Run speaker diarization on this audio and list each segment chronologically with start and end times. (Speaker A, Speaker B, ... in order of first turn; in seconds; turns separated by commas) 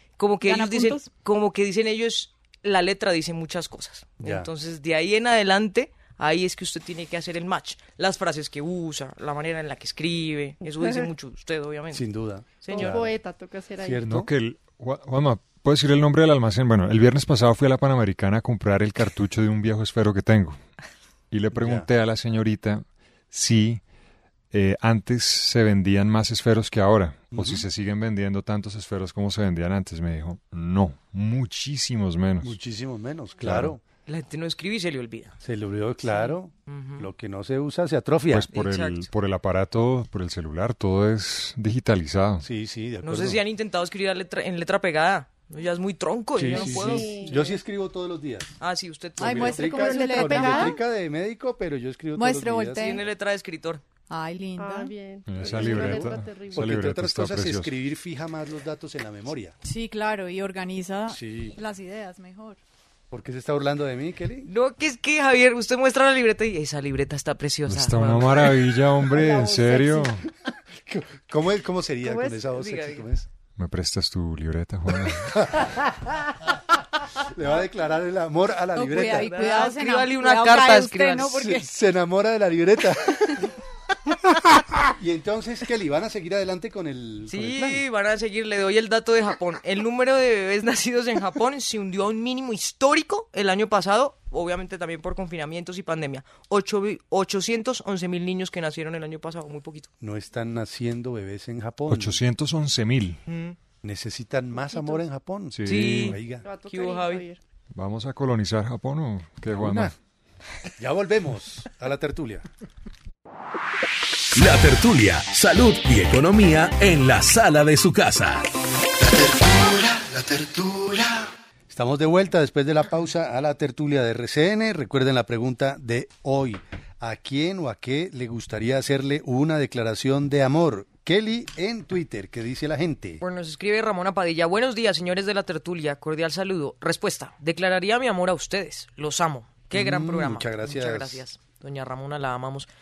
Speaker A: 0.2-12.1, Speaker B: 0.4-1.1, Speaker C: 4.2-4.5, Speaker C: 11.9-13.1, Speaker A: 12.6-13.0, Speaker D: 12.7-14.0, Speaker C: 13.8-14.3, Speaker E: 14.0-20.6, Speaker E: 21.3-23.8, Speaker C: 21.5-21.9, Speaker E: 24.5-32.6, Speaker C: 27.3-27.6, Speaker C: 32.4-33.8, Speaker E: 33.4-33.8, Speaker A: 34.1-35.4, Speaker C: 35.4-38.5, Speaker A: 36.0-37.1, Speaker E: 38.3-42.5, Speaker A: 38.5-39.1, Speaker C: 42.4-43.4, Speaker A: 43.0-47.4, Speaker C: 46.3-48.5, Speaker D: 46.5-47.6, Speaker A: 48.6-50.0, Speaker C: 49.2-53.0, Speaker B: 49.2-50.8, Speaker D: 49.7-50.8, Speaker B: 52.1-53.0, Speaker A: 52.8-53.8, Speaker B: 54.1-54.9, Speaker D: 54.6-56.7, Speaker E: 55.3-57.7, Speaker C: 55.4-59.5, Speaker B: 59.6-62.6, Speaker C: 61.1-61.5, Speaker C: 63.1-64.5, Speaker A: 64.4-68.6, Speaker E: 67.7-70.2, Speaker C: 70.8-73.3, Speaker D: 72.0-72.4, Speaker A: 72.5-73.0, Speaker E: 73.6-75.5, Speaker C: 75.1-75.9, Speaker C: 77.3-79.7, Speaker B: 78.7-81.7, Speaker A: 79.0-81.4, Speaker C: 81.3-83.5, Speaker C: 84.9-87.8, Speaker A: 87.3-99.9, Speaker C: 100.0-102.2, Speaker E: 101.9-103.2, Speaker A: 103.3-103.5, Speaker C: 103.8-106.4, Speaker D: 104.7-105.0, Speaker E: 105.5-106.2, Speaker A: 105.7-107.2, Speaker D: 106.4-107.4, Speaker E: 107.7-109.9, Speaker C: 109.5-109.9, Speaker C: 110.8-112.4, Speaker F: 114.3-118.5, Speaker G: 119.0-121.3, Speaker C: 121.7-133.2, Speaker A: 133.2-142.7, Speaker C: 139.7-141.2